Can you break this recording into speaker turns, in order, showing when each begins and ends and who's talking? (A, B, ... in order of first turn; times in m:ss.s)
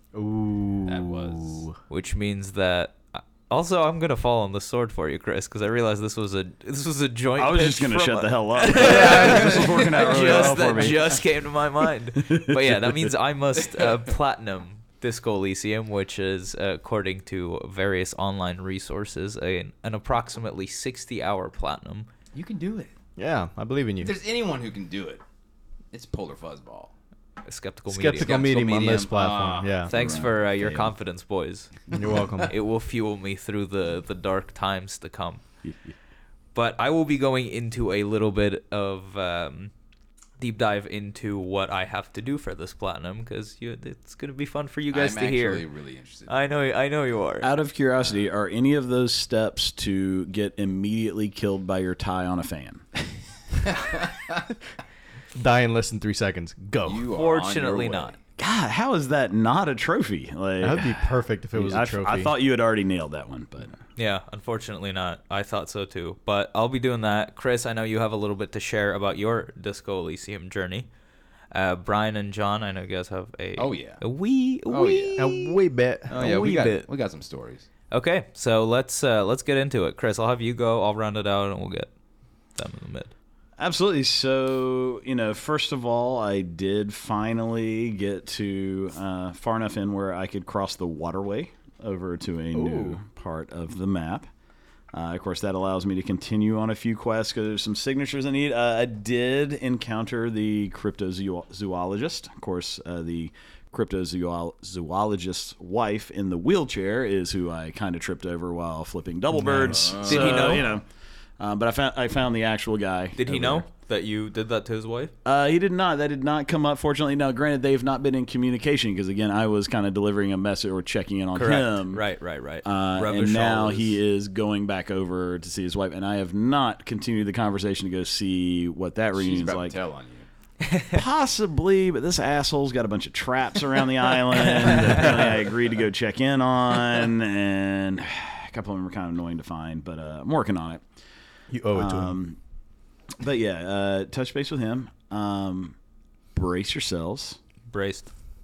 0:00.1-0:01.8 A
0:00.8-0:01.7 B
0:01.9-0:22.1 C
0:07.4-0:11.2 D
0:08.7-0:10.5 B
0:12.2-0:12.9 D
0:22.3-0:22.9 B
0:23.2-0:24.1 A
0:24.0-0:25.2 B
0:25.9-0:26.9 B
0:27.4-0:28.4 C
0:27.9-0:30.0 A
0:28.2-0:30.8 B
0:29.9-0:31.8 C
0:29.9-0:30.8 D
0:31.9-0:32.5 A
0:32.4-0:35.4 C
0:36.5-0:39.7 C
0:40.4-0:45.6 C
0:44.9-0:46.5 B
0:46.3-0:47.5 C
0:47.4-0:52.8 D
0:53.6-0:54.5 B
0:55.3-0:57.1 A
0:56.8-0:58.2 B
0:57.1-0:58.2 C
0:58.4-1:03.8 D
1:00.6-1:02.3 A
1:04.0-1:10.9 C
1:11.5-1:15.6 C
1:13.6-1:14.0 B
1:14.7-1:15.3 B
1:15.2-1:16.7 A
1:16.1-1:17.7 B
1:16.2-1:16.8 C
1:17.9-1:21.9 C
1:22.5-1:23.1 C
1:23.6-1:34.3 D
1:32.5-1:33.0 A
1:34.9-1:50.8 D
1:49.3-1:49.9 A
1:49.7-1:50.6 B
1:50.0-1:50.7 C
1:51.4-1:53.7 D
1:53.2-1:55.1 C
1:55.2-2:02.0 D
2:01.3-2:04.0 C
2:02.6-2:09.8 D
2:09.1-2:10.3 B
2:10.6-2:11.0 C
2:10.9-2:20.8 D
2:21.5-2:22.2 A
2:21.7-2:22.4 D
2:23.2-2:25.8 D
2:26.3-2:27.4 D
2:27.7-2:28.1 C